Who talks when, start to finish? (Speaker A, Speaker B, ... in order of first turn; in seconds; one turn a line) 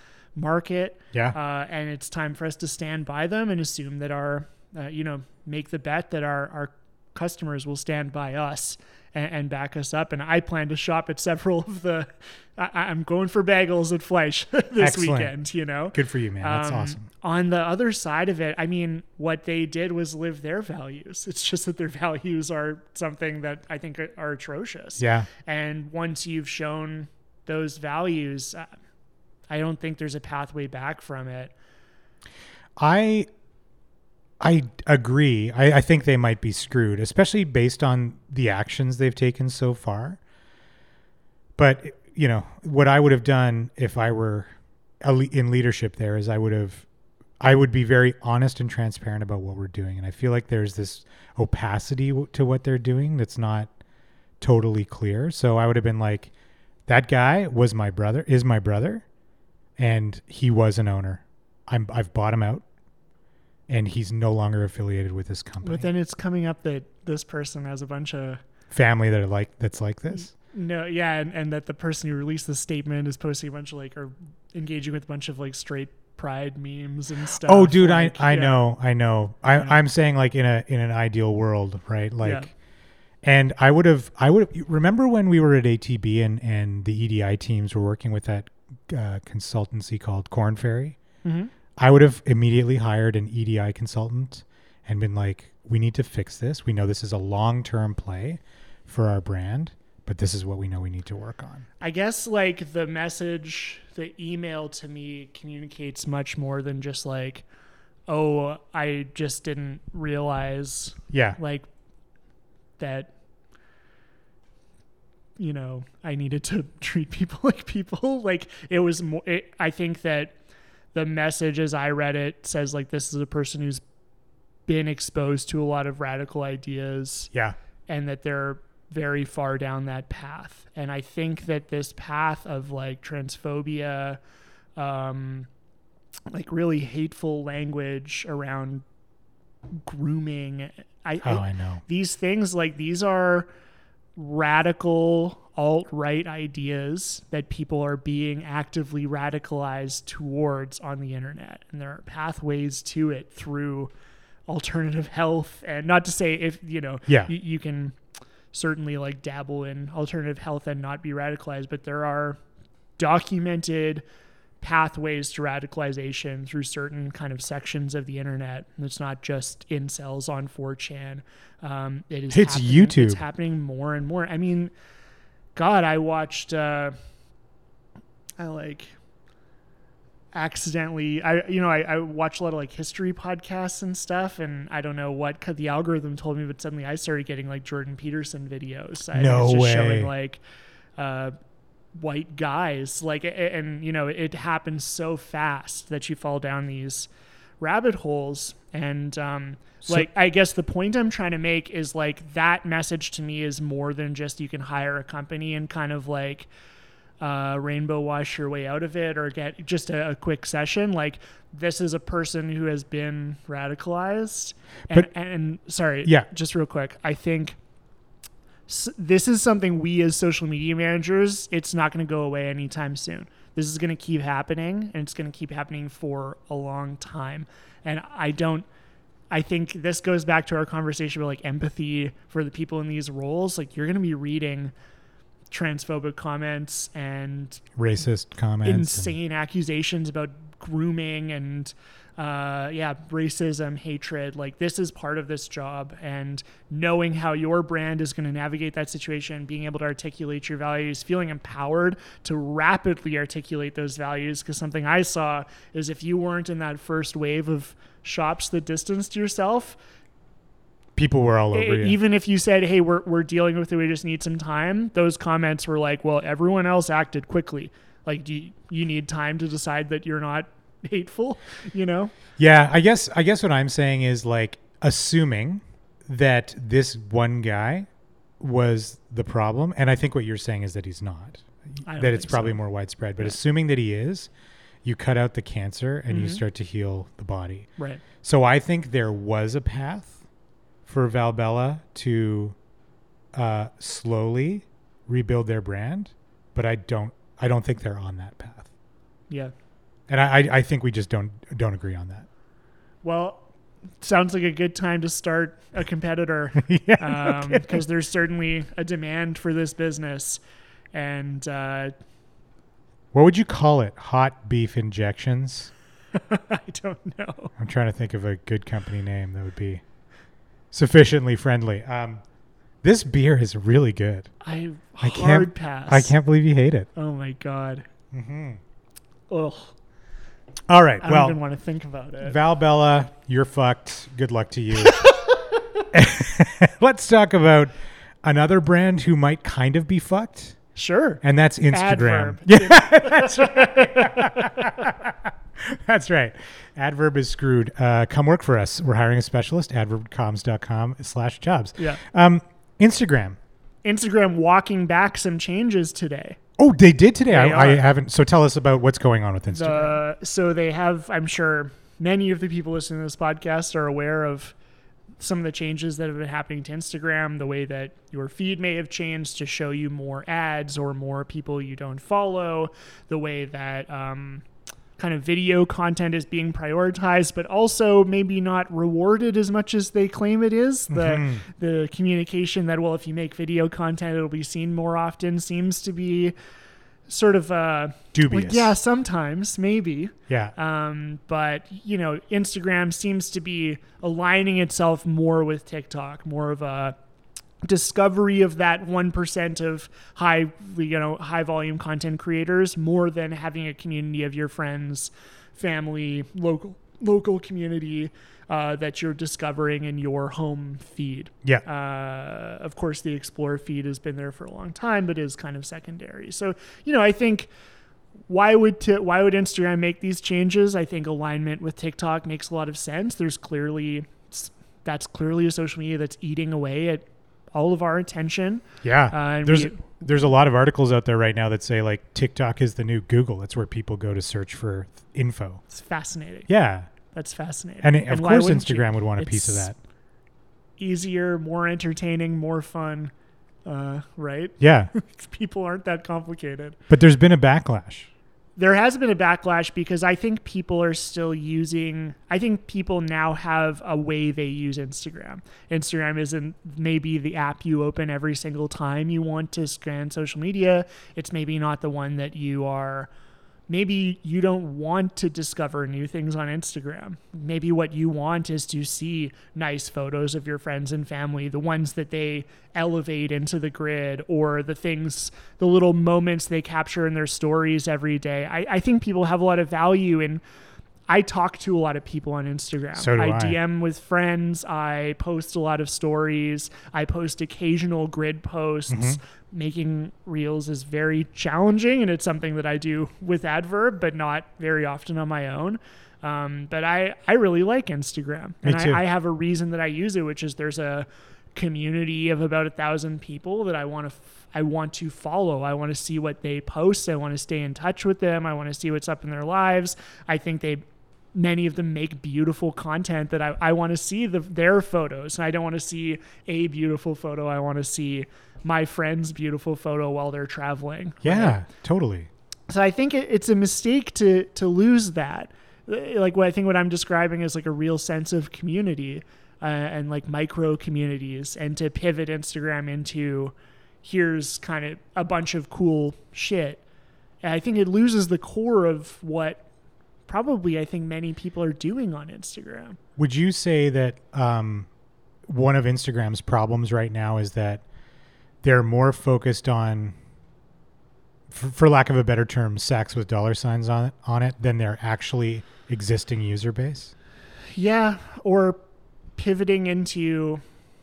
Speaker A: 0.3-28.7
Speaker B: 14.8-15.3
Speaker B: 15.9-17.1
Speaker B: 25.0-25.3
Speaker A: 29.5-31.5
Speaker B: 32.8-33.3
Speaker B: 34.4-40.2
Speaker B: 41.6-44.5
Speaker B: 45.0-46.8
Speaker B: 47.4-53.7
Speaker B: 54.4-56.3
Speaker B: 56.9-59.0
Speaker B: 59.8-62.6
Speaker B: 63.7-65.9
Speaker A: 65.6-68.4
Speaker B: 68.7-70.3
Speaker A: 70.3-78.6
Speaker B: 77.4-82.5
Speaker A: 82.2-82.5
Speaker B: 83.2-91.0
Speaker A: 91.2-91.5
Speaker B: 91.8-101.7
Speaker A: 101.8-107.4
Speaker A: 108.1-111.7
Speaker B: 111.1-111.4
Speaker A: 112.8-113.1
Speaker A: 115.4-120.3
Speaker A: 120.9-123.8
Speaker A: 124.7-127.3
Speaker A: 127.9-134.2
Speaker A: 134.8-135.5
Speaker A: 136.3-138.8
Speaker A: 139.8-143.5
Speaker B: 141.2-141.8
Speaker A: 144.2-153.9
Speaker A: 154.5-158.0
Speaker A: 158.5-162.4
Speaker A: 163.0-164.0
Speaker A: 164.6-174.7
Speaker B: 172.3-173.2
Speaker A: 175.5-176.9
Speaker A: 178.4-178.9
Speaker A: 180.3-190.4
Speaker B: 189.1-190.1
Speaker A: 191.0-191.3
Speaker A: 191.9-197.1
Speaker A: 197.6-206.5
Speaker A: 207.2-217.6
Speaker A: 218.7-228.7
Speaker A: 229.3-234.7
Speaker A: 235.5-237.6
Speaker B: 237.8-239.1
Speaker A: 238.6-259.8
Speaker B: 260.9-262.0
Speaker A: 261.5-272.1
Speaker B: 272.4-277.9
Speaker B: 278.4-284.3
Speaker A: 281.9-282.6
Speaker B: 284.8-287.7
Speaker A: 286.1-286.4
Speaker A: 287.8-288.0
Speaker B: 288.2-290.2
Speaker B: 290.9-292.6
Speaker B: 293.3-298.7
Speaker B: 300.1-302.3
Speaker A: 303.0-303.4
Speaker A: 304.0-310.4
Speaker B: 306.6-307.8
Speaker A: 310.9-311.9
Speaker B: 313.1-315.7
Speaker A: 316.1-317.5
Speaker B: 317.6-319.8
Speaker B: 320.7-322.2
Speaker B: 322.8-324.3
Speaker A: 324.4-326.1
Speaker B: 325.0-326.9
Speaker A: 326.9-327.9
Speaker B: 328.1-328.6
Speaker A: 329.3-329.7
Speaker B: 330.7-331.4
Speaker A: 331.0-332.4
Speaker B: 332.2-335.1
Speaker A: 334.8-335.6
Speaker B: 335.9-337.7
Speaker B: 338.2-340.6
Speaker A: 340.7-344.9
Speaker B: 341.2-353.4
Speaker A: 353.8-356.4
Speaker B: 356.6-360.0
Speaker A: 357.3-357.9
Speaker A: 359.5-364.5
Speaker A: 365.2-374.4
Speaker A: 375.0-386.3
Speaker B: 380.9-381.4
Speaker A: 387.1-396.9
Speaker B: 388.1-388.8
Speaker B: 390.3-390.5
Speaker A: 397.6-417.5
Speaker A: 418.3-429.8
Speaker B: 428.8-435.6
Speaker A: 435.7-436.5
Speaker B: 436.5-436.9
Speaker A: 437.1-439.7
Speaker B: 437.8-439.8
Speaker A: 440.8-443.1
Speaker A: 443.6-446.8
Speaker B: 444.6-444.9
Speaker B: 446.9-448.1
Speaker A: 448.6-463.1
Speaker A: 463.7-480.4
Speaker A: 481.1-510.8
Speaker B: 483.0-483.6
Speaker B: 488.9-489.2
Speaker B: 498.6-499.0
Speaker A: 511.3-521.6
Speaker B: 521.2-522.3
Speaker A: 522.7-536.8
Speaker A: 537.4-539.6
Speaker A: 540.3-543.0
Speaker B: 543.2-544.9
Speaker B: 545.5-547.8
Speaker B: 548.6-550.1
Speaker B: 551.5-557.1
Speaker A: 557.7-558.8
Speaker A: 559.4-560.6